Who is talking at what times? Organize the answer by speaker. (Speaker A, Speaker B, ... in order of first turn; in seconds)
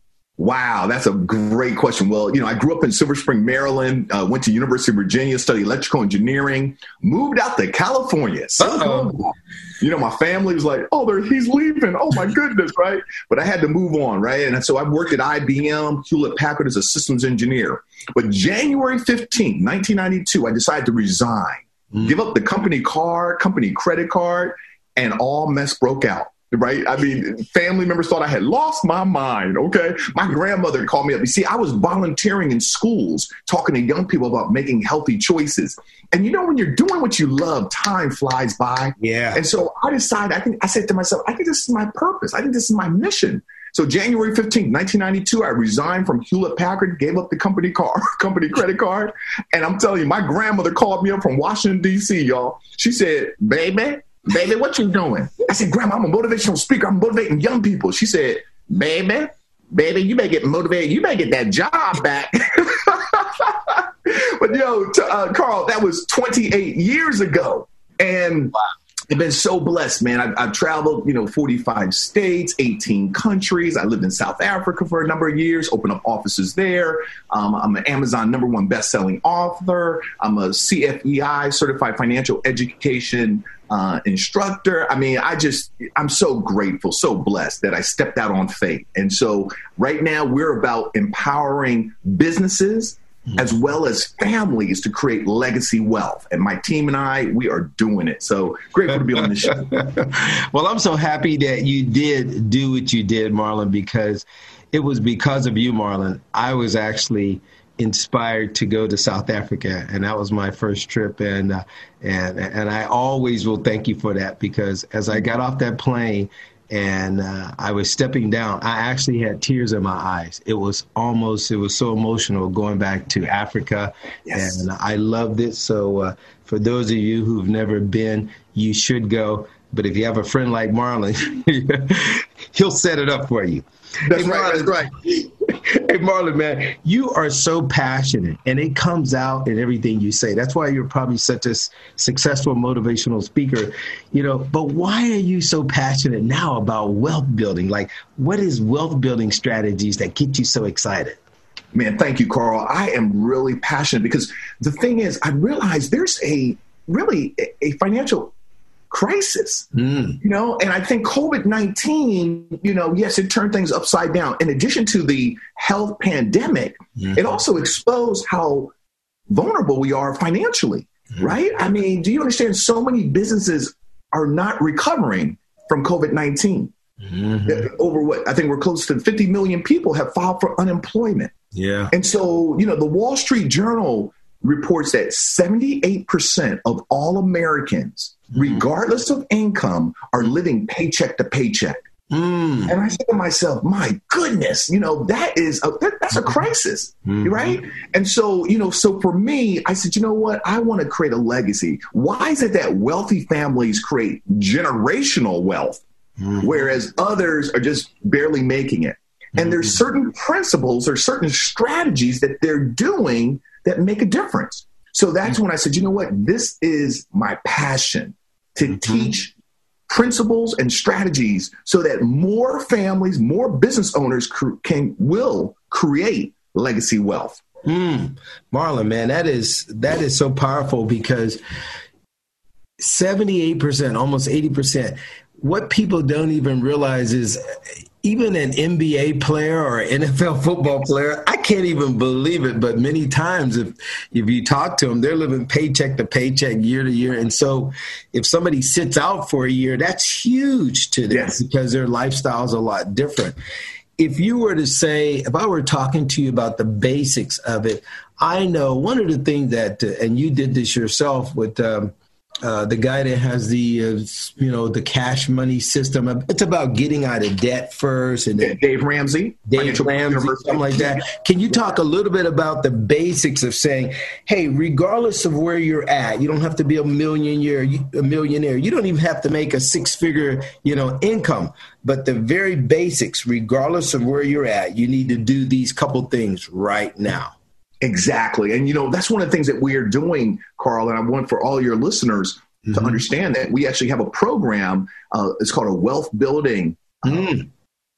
Speaker A: 0.4-68.5, 69.1-99.8, 124.2-124.6, 134.1-134.9, 151.7-158.3, 158.9-159.7, 160.2-168.7, 169.3-176.7, 177.4-181.3, 181.9-191.8, 192.7-205.8, 206.4-219.3, 219.9-227.4, 251.1-251.4, 268.4-271.0, 287.8-297.4
Speaker B: 8.6-9.1, 39.0-39.4, 99.2-151.2, 159.7-160.2, 167.0-167.4, 177.0-177.7, 181.5-181.9, 188.3-188.6, 192.1-192.8, 197.1-197.6, 206.2-206.7, 209.4-209.7, 218.8-219.1, 227.7-231.4, 232.8-237.4, 238.0-253.4, 254.0-268.6, 269.5-287.3, 292.7-293.0, 297.0-297.5